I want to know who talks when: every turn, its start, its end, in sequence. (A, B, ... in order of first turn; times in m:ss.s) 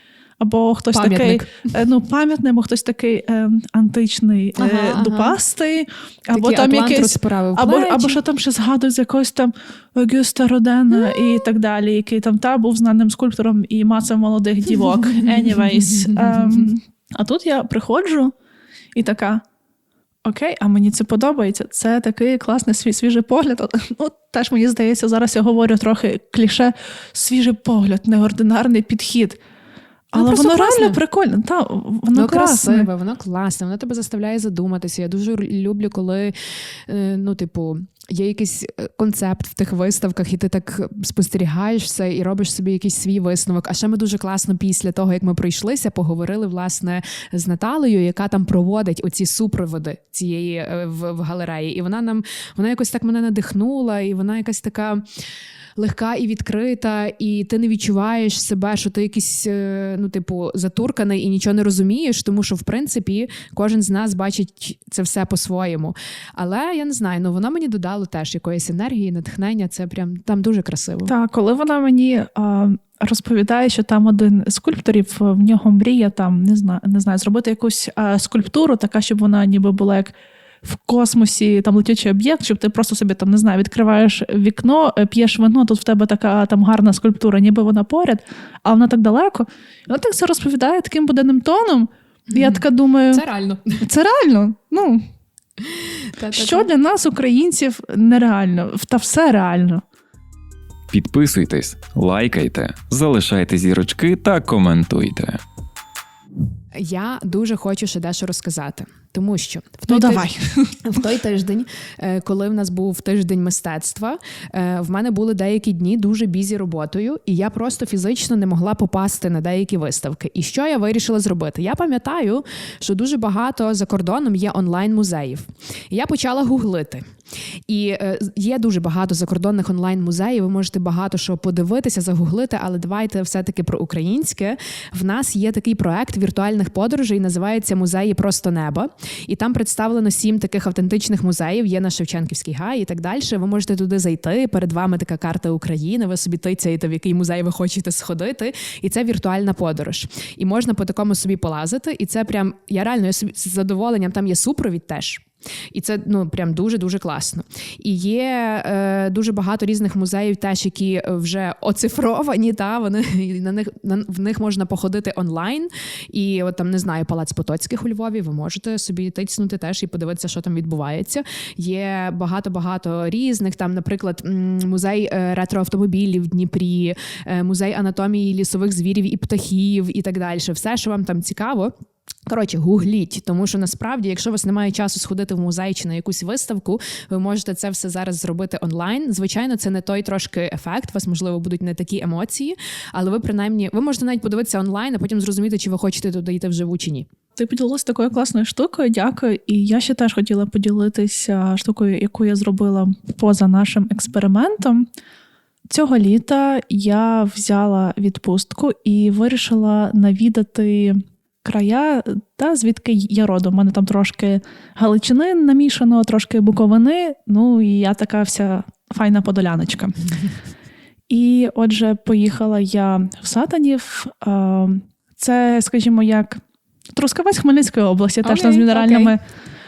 0:00.4-0:18.3 A
0:00.9-0:01.7 B
0:04.6-0:05.4 B
0:06.3-0:08.2 B
0:18.9-0:19.4 A
0:20.2-0:29.4 A
0:30.1-0:32.9 A
0:30.2-0:31.0 B
0:32.1-0:36.3 B
0:36.9-0:55.0 B
0:55.8-1:11.1 B
1:11.1-1:33.2 A
1:32.3-1:33.8 B
1:33.8-1:35.0 A
1:35.6-1:36.7 B
1:36.3-1:39.8 A
1:40.9-1:45.4 C
1:46.8-1:50.3 B
1:49.9-1:50.8 A
1:50.8-2:07.1 B
2:07.7-3:01.7 B
3:02.3-3:17.1 B
3:17.4-3:24.9 A
3:25.7-3:39.9 A
3:41.1-3:46.4 A
3:46.9-3:49.2 A
3:48.2-3:49.2 B